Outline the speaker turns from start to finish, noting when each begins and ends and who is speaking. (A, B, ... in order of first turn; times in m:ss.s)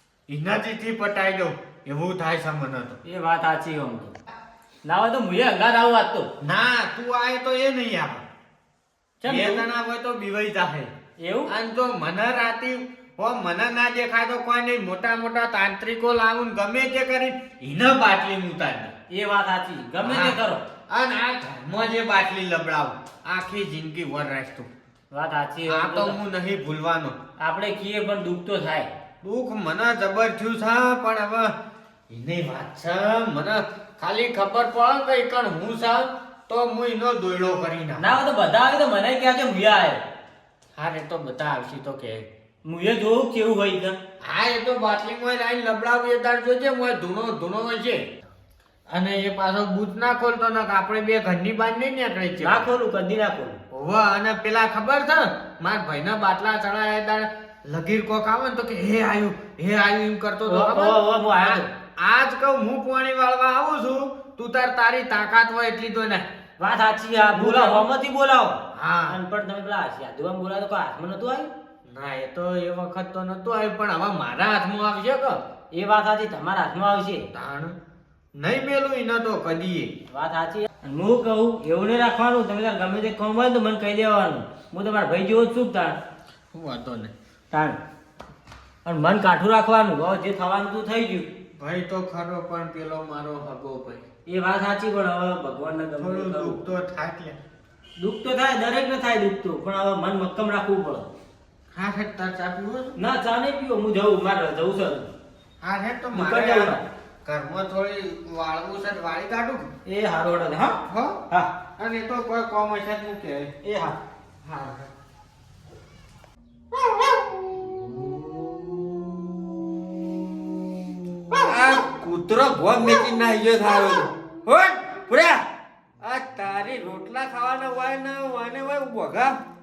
0:00.3-0:03.0 A
0:03.0-0:04.2 B
0:04.8-0:06.3 B
0:06.4-0:08.2 A
0:09.2-0:09.6 B
0:09.3-0:10.9 A
0:11.2-0:11.5 B
0:11.5-0:18.9 A
0:19.1-0:20.6 B
0:20.0-0:20.4 A
0:20.9-0:24.7 A
0:25.1-0:26.2 B
0:25.7-0:27.2 A
0:27.4-0:28.9 B
0:29.2-0:31.5 A
0:32.1-0:38.2 A
0:38.0-0:40.0 B
0:40.8-0:42.3 A
0:42.6-0:44.0 B
0:44.2-0:48.0 A
0:48.9-0:52.7 A
0:52.4-0:53.6 B
0:53.7-1:06.3 A
1:00.5-1:01.7 B
1:06.6-1:11.5 B
1:07.3-1:07.9 A
1:08.7-1:09.2 A
1:11.9-1:15.4 A
1:15.7-1:17.3 B
1:17.3-1:17.8 A
1:18.4-1:19.9 A
1:20.1-1:26.0 B
1:26.5-1:27.1 A
1:27.5-1:27.8 B
1:28.8-1:31.3 B
1:31.6-1:34.1 A
1:34.3-1:36.6 B
1:36.0-1:37.4 A
1:38.0-1:41.1 B
1:41.7-1:43.0 A
1:43.0-1:45.1 B
1:45.6-1:49.7 A
1:46.1-1:46.8 B
1:49.8-1:50.8 B
1:50.9-1:51.2 A
1:51.8-1:53.5 A
1:53.6-1:54.0 B
1:54.4-1:54.9 A
2:01.3-2:05.4 C
2:06.0-2:09.4 C